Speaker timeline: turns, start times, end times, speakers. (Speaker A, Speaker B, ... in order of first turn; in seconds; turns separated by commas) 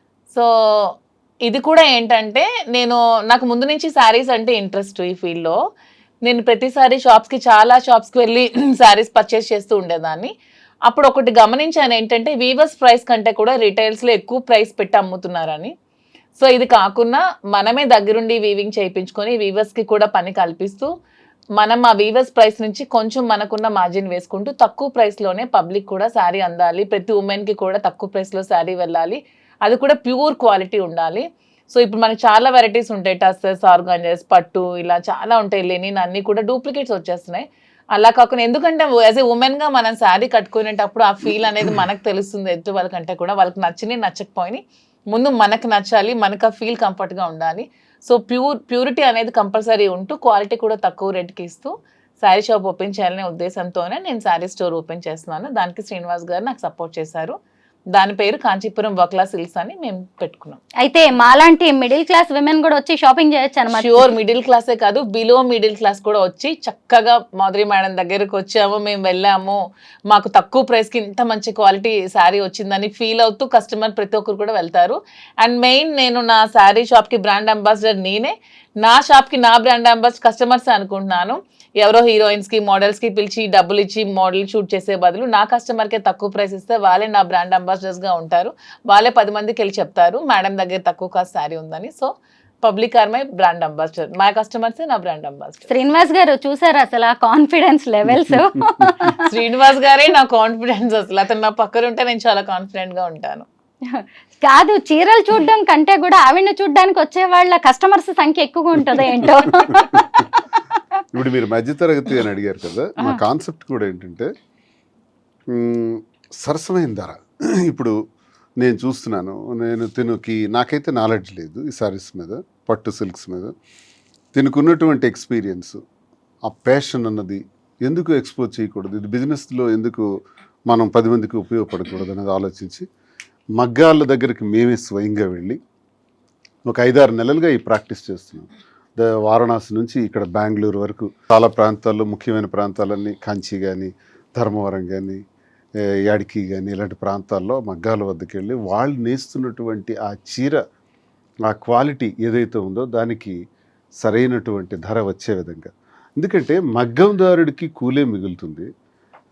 Speaker A: 0.3-5.6, Speaker A: 6.2-10.3, Speaker A: 10.9-15.7, Speaker A: 16.4-20.9, Speaker A: 21.6-57.4, Speaker A: 57.9-60.6, Speaker B: 60.8-64.1, Speaker A: 63.7-69.6, Speaker A: 70.1-92.1, Speaker A: 92.6-95.7, Speaker B: 95.7-99.4, Speaker A: 99.2-103.5, Speaker B: 103.9-110.3, Speaker C: 109.7-110.0, Speaker C: 111.1-114.3, Speaker C: 115.5-117.9, Speaker C: 118.6-123.5, Speaker C: 124.3-125.8, Speaker C: 126.5-130.1, Speaker C: 130.7-132.8, Speaker C: 133.6-135.6, Speaker C: 136.7-145.2, Speaker C: 146.1-150.6, Speaker C: 151.5-153.4, Speaker C: 154.0-158.7